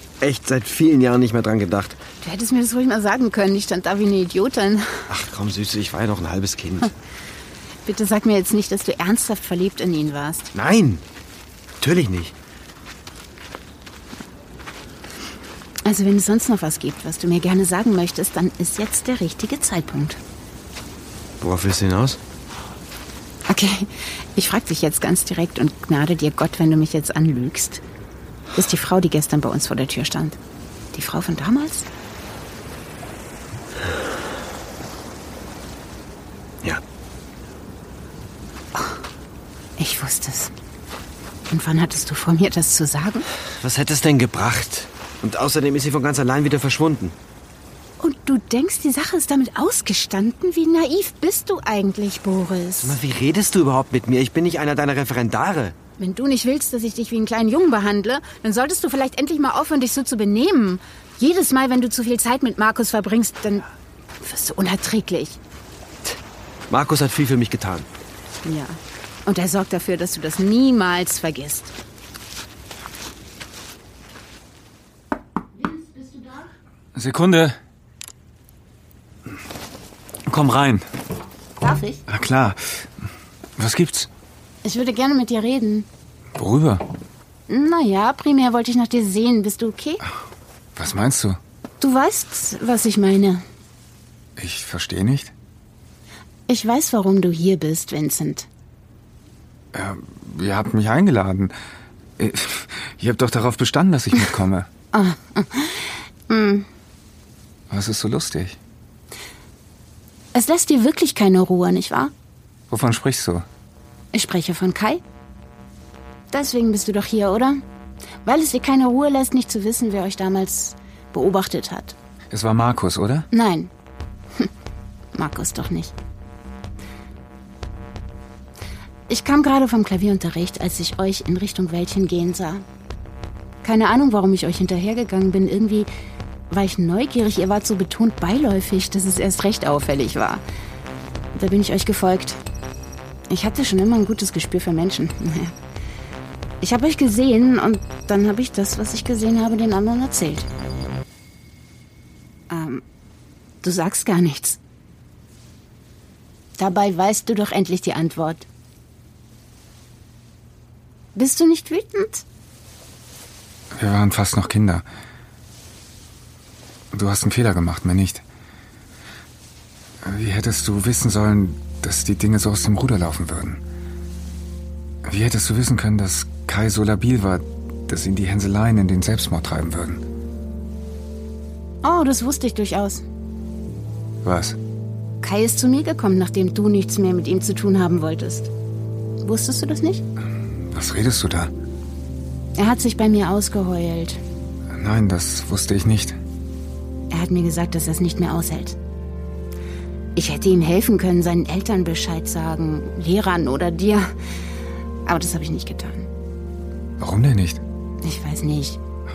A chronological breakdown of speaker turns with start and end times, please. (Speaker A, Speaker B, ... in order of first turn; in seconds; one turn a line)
Speaker A: 0.2-2.0
Speaker B: 2.2-5.0
Speaker A: 5.1-6.9
Speaker B: 7.8-10.5
Speaker A: 10.5-11.0
Speaker A: 11.8-12.3
Speaker B: 15.8-20.2
Speaker A: 21.4-22.2
Speaker B: 23.5-27.8
Speaker B: 28.5-30.4
Speaker B: 30.9-31.9
Speaker B: 39.8-40.5
Speaker B: 41.5-43.2
Speaker A: 43.6-47.1
Speaker B: 48.0-53.0
Speaker A: 52.8-55.7
Speaker B: 56.0-63.7
Speaker B: 64.2-65.4
Speaker A: 66.7-67.9
Speaker B: 68.4-71.7
Speaker C: 76.9-77.5
Speaker C: 80.2-80.8
Speaker B: 81.6-82.0
Speaker C: 82.1-82.9
Speaker C: 83.6-84.1
Speaker B: 84.6-85.9
Speaker C: 86.3-86.8
Speaker B: 87.5-90.0
Speaker C: 90.8-91.4
Speaker B: 91.8-93.4
Speaker C: 94.4-95.3
Speaker B: 96.5-98.5
Speaker C: 99.7-101.5
Speaker C: 102.2-104.7
Speaker B: 104.9-106.7
Speaker C: 107.7-108.6
Speaker B: 110.3-112.1
Speaker C: 112.7-113.5
Speaker B: 114.1-115.0
Speaker B: 116.3-117.6
Speaker B: 118.2-121.9
Speaker C: 122.3-123.3
Speaker B: 123.3-123.7
Speaker B: 125.1-125.9
Speaker B: 129.1-132.6
Speaker B: 133.6-135.9
Speaker B: 136.5-140.4
Speaker B: 141.3-142.4
Speaker B: 143.3-145.5
Speaker B: 146.6-150.5
Speaker B: 152.5-152.8
Speaker B: 153.6-154.6
Speaker B: 156.6-158.4
Speaker B: 161.1-162.2
Speaker C: 163.7-164.8
Speaker C: 166.9-168.2
Speaker C: 170.0-173.6
Speaker C: 175.0-180.0
Speaker B: 181.8-183.0
Speaker C: 184.2-184.6
Speaker B: 185.2-188.5
Speaker B: 189.2-190.0
Speaker C: 190.7-191.5
Speaker B: 192.6-194.2
Speaker C: 194.7-196.2
Speaker B: 197.1-198.8
Speaker B: 200.1-204.1
Speaker B: 205.1-206.1
Speaker C: 207.0-207.6
Speaker B: 208.0-208.8